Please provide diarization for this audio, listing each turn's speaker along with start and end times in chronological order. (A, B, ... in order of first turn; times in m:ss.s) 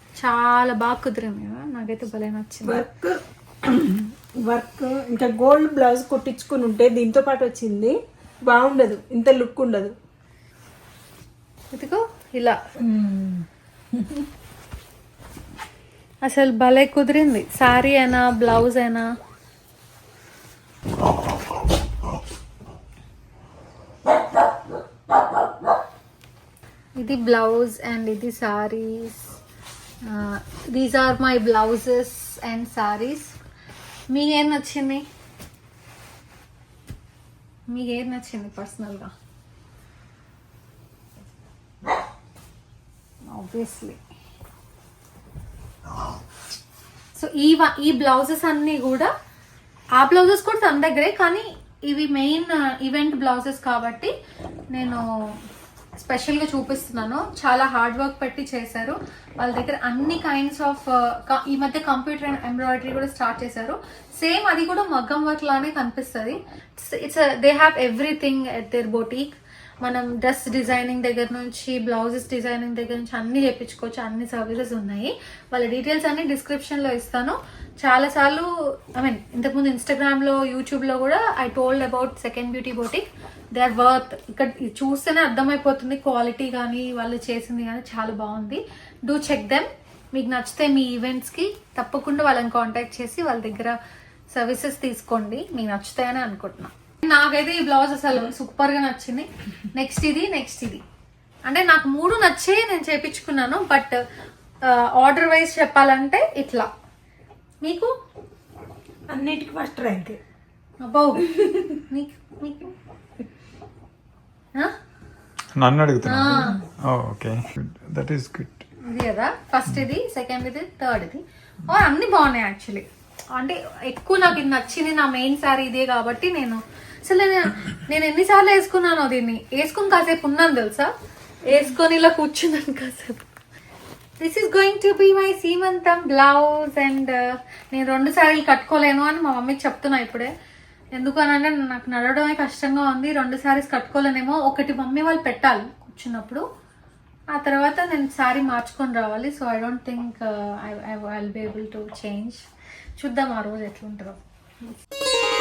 0:00.2-0:02.9 A
0:02.6-0:09.9 B
0:11.7-0:12.6 A
0:12.8-0:14.2 B
0:16.2-0:19.1 A
0:27.0-0:29.4 A
0:30.0-0:33.4 A
0:34.1-0:35.0 A
0:37.7-0:39.1 A
0:43.3-0:44.0 A
0:47.1-0:49.1 A
0:50.0-0:54.1 A
0:54.7-0:55.4 A
0:56.0-1:33.8 A
1:34.3-1:40.8 A
1:41.5-1:44.0 A
1:44.6-1:46.7 A
1:47.6-1:47.9 A
1:49.1-1:50.2 B
1:50.8-1:51.3 A
1:51.4-1:51.6 B
1:51.9-1:52.7 A
1:55.6-1:58.6 C
1:56.0-1:56.6 A
1:58.8-2:10.9 A
2:11.4-2:13.2 A
2:14.2-2:20.3 A
2:21.0-2:26.4 A
2:27.3-2:32.4 A
2:33.0-2:34.2 A